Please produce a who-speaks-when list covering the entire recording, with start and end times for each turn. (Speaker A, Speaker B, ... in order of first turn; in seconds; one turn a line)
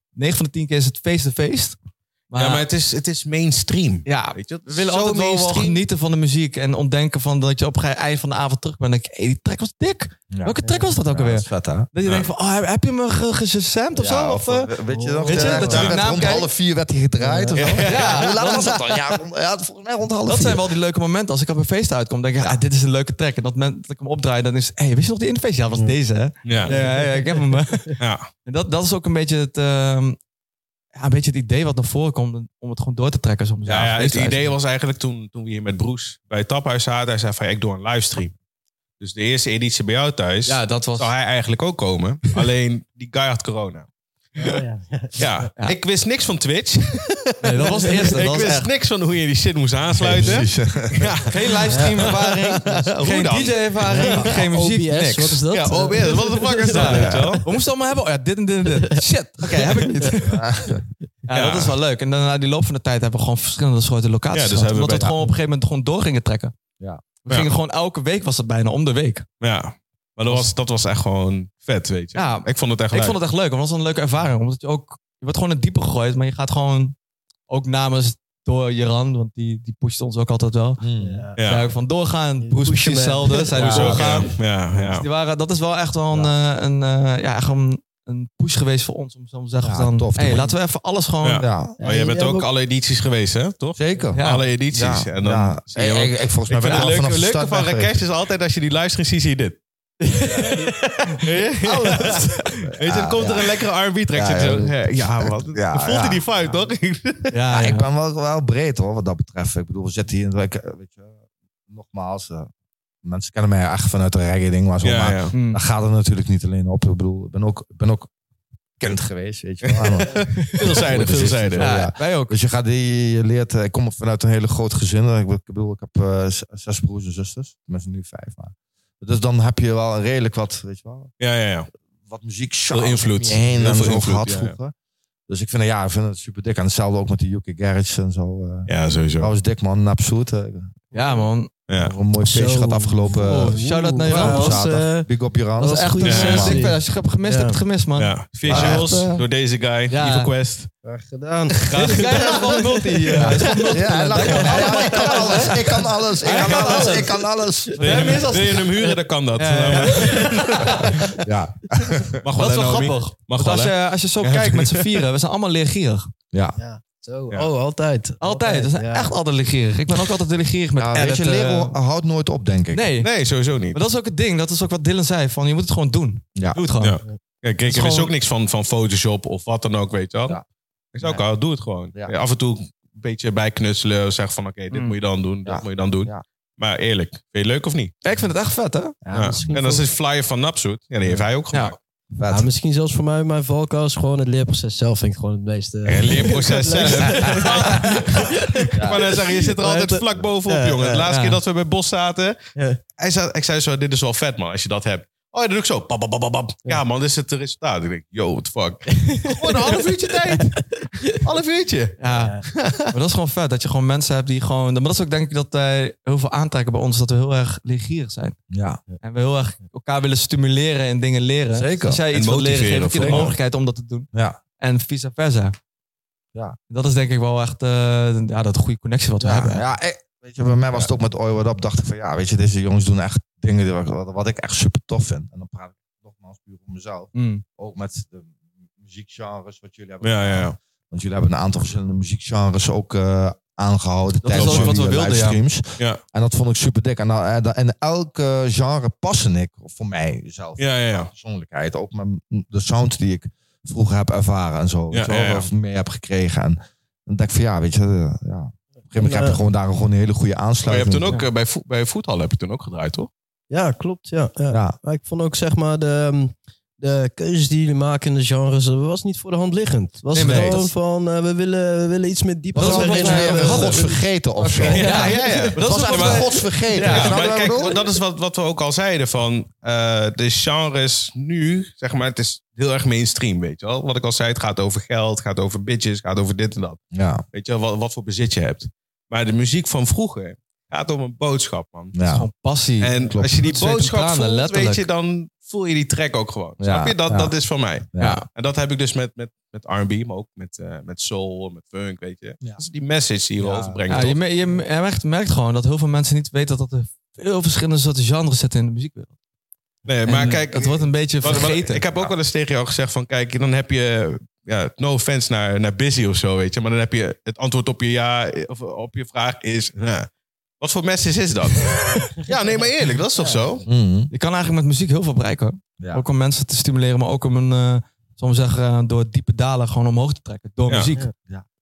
Speaker A: 0.1-1.8
Speaker A: 2.3-2.7
Speaker B: 2.4-5.8
Speaker A: 4.0-14.7
Speaker C: 10.3-11.9
Speaker D: 10.6-10.9
Speaker C: 13.9-20.6
Speaker D: 14.9-15.9
Speaker A: 15.3-16.5
Speaker B: 15.7-16.0
Speaker D: 17.2-17.8
Speaker B: 17.6-18.2
Speaker A: 17.8-19.1
Speaker A: 20.3-30.2
Speaker B: 26.4-26.7
Speaker D: 26.6-27.5
Speaker B: 28.0-28.3
Speaker A: 30.9-34.5
Speaker B: 33.7-38.3
Speaker B: 39.0-43.9
Speaker A: 40.5-41.1
Speaker D: 44.4-45.2
Speaker B: 45.2-54.4
Speaker A: 47.4-48.7
Speaker A: 50.0-50.4
Speaker C: 50.1-51.2
Speaker A: 51.3-55.4
Speaker D: 53.9-57.4
Speaker B: 55.5-57.5
Speaker A: 56.7-60.4
Speaker C: 56.8-57.4
Speaker D: 59.6-60.2
Speaker C: 60.2-60.9
Speaker A: 61.3-66.5
Speaker B: 61.3-61.8
Speaker B: 64.3-65.1
Speaker A: 67.2-69.3
Speaker B: 69.4-73.2
Speaker A: 72.1-77.0
Speaker A: 77.5-80.8
Speaker C: 80.8-81.3
Speaker D: 81.0-81.4
Speaker B: 81.4-81.7
Speaker A: 81.4-91.5
Speaker D: 82.4-84.0
Speaker B: 83.5-85.1
Speaker C: 83.7-84.0
Speaker C: 89.6-90.5
Speaker B: 91.2-99.6
Speaker C: 91.4-91.8
Speaker D: 91.8-92.5
Speaker C: 93.8-94.2
Speaker A: 94.1-94.5
Speaker C: 94.7-98.0
Speaker A: 100.0-102.3
Speaker B: 101.2-107.3
Speaker C: 101.7-103.6
Speaker C: 104.1-106.5
Speaker A: 107.3-107.9
Speaker C: 107.5-111.1
Speaker C: 111.7-112.5
Speaker C: 113.0-118.1
Speaker B: 114.8-115.3
Speaker A: 115.3-115.6
Speaker C: 118.8-131.1
Speaker B: 119.6-121.8
Speaker A: 120.4-122.4
Speaker B: 131.2-131.7
Speaker C: 132.1-134.7
Speaker B: 132.7-134.6
Speaker C: 135.3-140.8
Speaker B: 138.7-139.3
Speaker A: 140.9-141.5
Speaker B: 141.7-141.9
Speaker C: 141.8-146.7
Speaker D: 142.2-145.1
Speaker A: 143.1-144.6
Speaker D: 145.6-147.6
Speaker A: 145.7-149.2
Speaker B: 146.0-146.6
Speaker B: 148.0-150.7
Speaker C: 148.5-148.9
Speaker A: 149.9-150.3
Speaker D: 150.8-155.7
Speaker B: 151.6-152.7
Speaker A: 151.7-157.2
Speaker C: 153.7-158.0
Speaker D: 156.4-157.1
Speaker D: 157.7-158.1
Speaker A: 157.8-161.2
Speaker B: 157.8-160.9
Speaker C: 160.9-162.2
Speaker B: 162.2-164.9
Speaker A: 162.4-166.1
Speaker C: 166.3-166.6
Speaker D: 166.6-169.1
Speaker A: 168.2-171.8
Speaker C: 170.8-172.9
Speaker A: 172.7-173.1
Speaker B: 173.0-173.8
Speaker A: 173.7-177.0
Speaker B: 176.8-180.4
Speaker A: 177.7-178.1
Speaker B: 180.9-187.9
Speaker A: 184.7-185.0
Speaker C: 185.4-186.2
Speaker A: 188.0-189.0
Speaker D: 189.1-189.9
Speaker B: 189.1-191.8
Speaker C: 189.2-189.5
Speaker A: 191.5-191.8
Speaker C: 192.1-192.5
Speaker D: 192.3-201.0
Speaker B: 195.8-202.4
Speaker C: 198.7-199.1
Speaker A: 201.1-201.4
Speaker B: 203.0-212.9
Speaker D: 209.0-210.8
Speaker A: 212.0-212.4
Speaker D: 212.1-212.4
Speaker A: 212.9-218.4
Speaker C: 218.5-218.8
Speaker A: 219.0-224.1
Speaker C: 221.5-222.0
Speaker B: 222.1-223.3
Speaker C: 223.0-223.3
Speaker C: 224.1-224.4
Speaker A: 224.6-225.6
Speaker A: 226.7-229.6
Speaker C: 229.2-261.1
Speaker A: 237.1-237.4
Speaker B: 240.0-240.6
Speaker A: 244.2-245.4
Speaker B: 244.3-244.8
Speaker B: 250.6-251.1
Speaker B: 254.9-255.5
Speaker D: 259.0-259.4
Speaker B: 260.6-263.1
Speaker D: 263.5-275.5
Speaker C: 264.5-264.8
Speaker A: 270.1-270.7
Speaker C: 270.2-270.6
Speaker A: 272.5-273.9
Speaker C: 272.6-274.9
Speaker A: 274.6-277.2
Speaker B: 274.7-286.8
Speaker C: 275.6-277.8
Speaker C: 286.9-287.2
Speaker B: 287.3-291.9
Speaker C: 291.9-292.3
Speaker A: 292.1-294.9
Speaker B: 292.8-304.2
Speaker C: 293.1-293.4
Speaker C: 296.6-297.3
Speaker C: 297.9-298.2
Speaker A: 298.0-298.3
Speaker C: 303.4-303.9
Speaker A: 303.9-309.1
Speaker B: 309.9-320.1
Speaker A: 310.1-311.8
Speaker B: 320.6-323.6
Speaker D: 323.2-323.4
Speaker C: 323.6-324.1
Speaker A: 324.1-331.1